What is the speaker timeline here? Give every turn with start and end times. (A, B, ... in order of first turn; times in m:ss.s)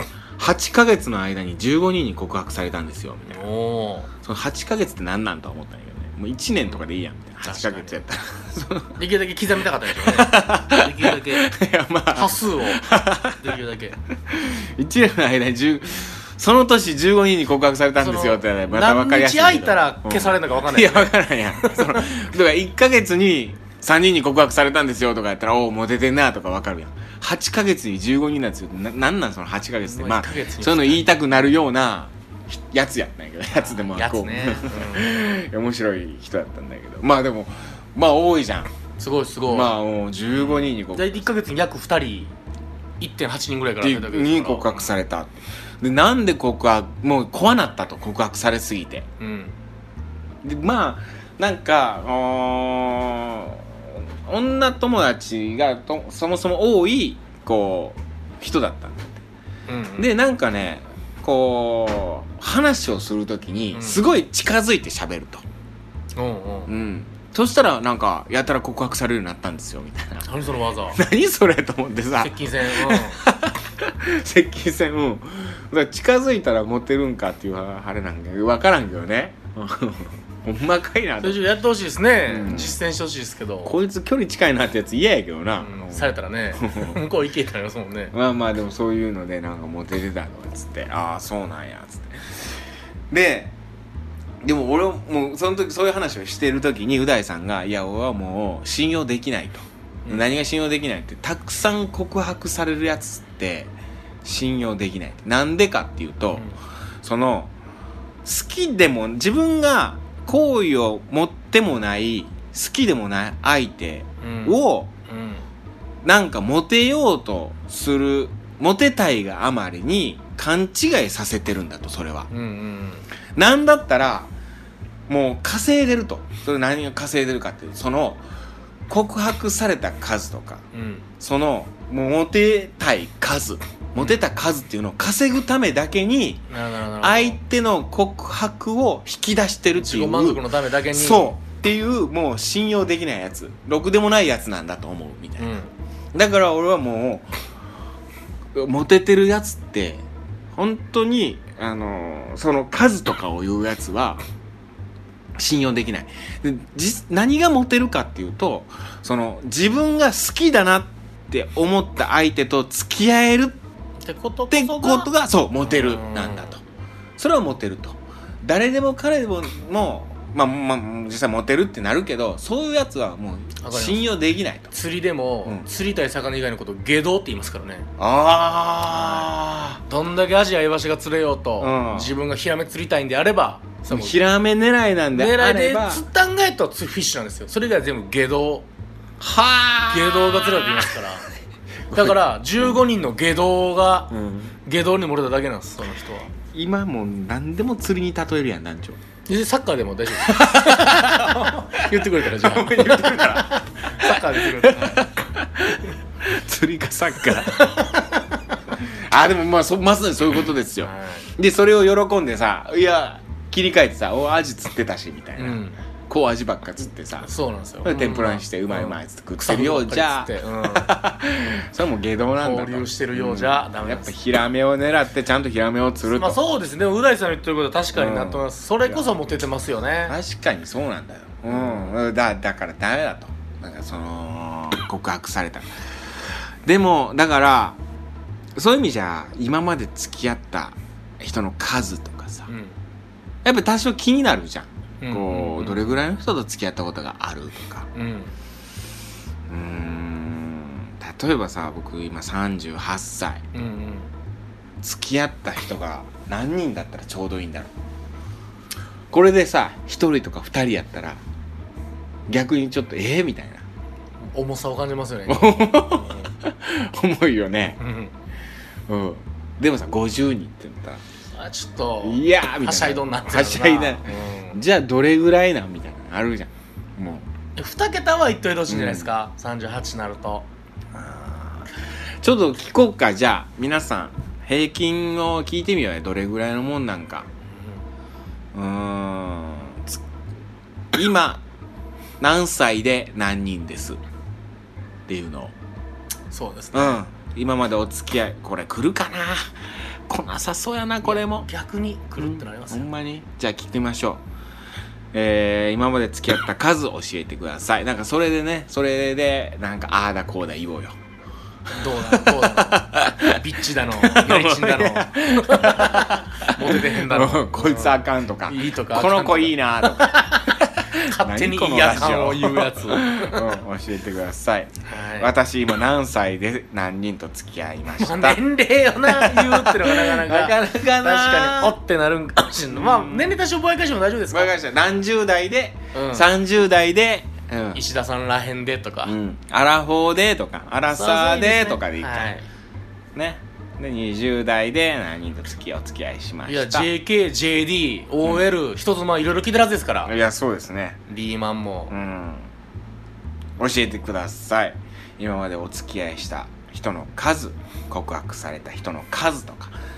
0:00.4-0:03.4 A
0:03.3-0:04.1 B
0:04.2-0:09.0 A
0:07.4-0:08.0 B
0:09.0-0:11.5 B
0:10.0-0:13.5 A
0:12.1-0:14.0 B
0:14.3-0:38.7 A
0:18.0-0:22.1 B
0:29.8-0:31.1 B
0:33.5-0:35.1 B
0:39.0-0:39.8 B
0:39.5-0:41.2 A
0:40.3-0:42.3 B
0:43.0-0:44.9 B
0:43.8-0:49.1 A
0:49.2-0:49.5 B
0:50.4-0:59.2 A
0:59.7-1:00.1 B
1:00.0-1:05.4 A
1:03.7-1:04.0 B
1:06.2-1:06.7 B
1:06.7-1:10.3 A
1:10.2-1:11.0 B
1:10.9-1:21.5 A
1:12.2-1:13.2 B
1:21.2-1:23.8 B
1:22.2-1:22.8 A
1:23.6-1:27.0 A
1:25.6-1:28.1 B
1:28.1-1:33.6 A
1:34.4-1:46.5 A
1:47.0-1:47.5 A
1:48.2-1:54.9 A
1:54.2-1:55.4 B
1:56.0-2:02.3 A
2:02.3-2:03.1 B
2:03.4-2:04.3 A
2:05.1-2:08.2 A
2:08.9-2:10.6 A
2:10.7-2:11.1 B
2:11.2-2:16.5 A
2:16.5-2:17.4 B
2:17.0-2:25.6 A
2:19.7-2:21.3 B
2:25.4-2:25.7 B
2:26.1-2:27.4 A
2:28.5-2:34.2 A
2:35.4-2:43.6 A
2:44.0-2:45.1 B
2:44.5-2:46.6 A
2:45.6-2:46.6 B
2:47.2-2:54.7 A
2:53.6-2:54.1 B
2:54.7-2:57.9 B
2:58.0-2:59.8 A
2:58.9-2:59.3 B
2:59.9-3:04.2 B
3:01.6-3:02.2 A
3:03.9-3:06.0 A
3:05.1-3:08.7 B
3:09.2-3:11.0 A
3:09.9-3:11.3 B
3:11.9-3:12.8 A
3:11.9-3:14.1 B
3:14.1-3:14.6 A
3:14.6-3:16.3 B
3:16.5-3:19.0 A
3:19.3-3:25.0 B
3:20.2-3:27.8 A
3:27.4-3:28.1 B
3:28.8-3:46.4 A
3:30.8-3:31.3 B
3:35.4-3:35.8 B
3:37.2-3:40.9 B
3:42.4-3:44.1 B
3:46.1-3:50.2 B
3:47.9-3:49.0 A
3:50.1-3:57.8 A
3:51.5-3:51.9 B
3:58.6-4:02.5 A
4:02.5-4:02.8 B
4:03.4-4:07.9 A
4:05.0-4:05.8 B
4:07.9-4:08.3 B
4:09.5-4:13.4 A
4:13.5-4:14.1 B
4:14.8-4:17.7 A
4:19.1-4:21.2 A
4:22.3-4:23.6 A
4:24.3-4:26.3 B
4:25.3-4:27.8 A
4:27.8-4:28.1 B
4:28.9-4:31.0 A
4:31.3-4:34.6 B
4:32.0-4:37.3 A
4:37.6-4:40.5 B
4:38.7-4:39.1 A
4:40.9-4:47.3 A
4:48.5-4:50.0 A
4:50.9-4:51.4 A
4:52.2-4:54.0 A
4:55.1-4:55.5 A
4:56.3-4:57.0 B
4:56.7-5:01.5 A
5:01.0-5:02.9 B
5:02.2-5:04.2 A
5:05.1-5:11.0 A
5:11.7-5:23.5 B
5:11.8-5:13.4 A
5:14.0-5:28.4 A
5:24.9-5:25.3 B
5:28.0-5:34.5 B
5:29.0-5:31.8 A
5:32.7-5:33.4 A
5:34.3-5:37.8 A
5:35.9-5:36.3 B
5:37.7-5:39.2 B
5:39.0-5:42.4 A
5:40.9-5:42.5 B
5:43.1-5:46.9 A
5:46.5-5:50.1 B
5:50.0-5:51.0 A
5:51.1-5:51.9 B
5:51.9-5:52.5 A
5:53.6-5:59.8 A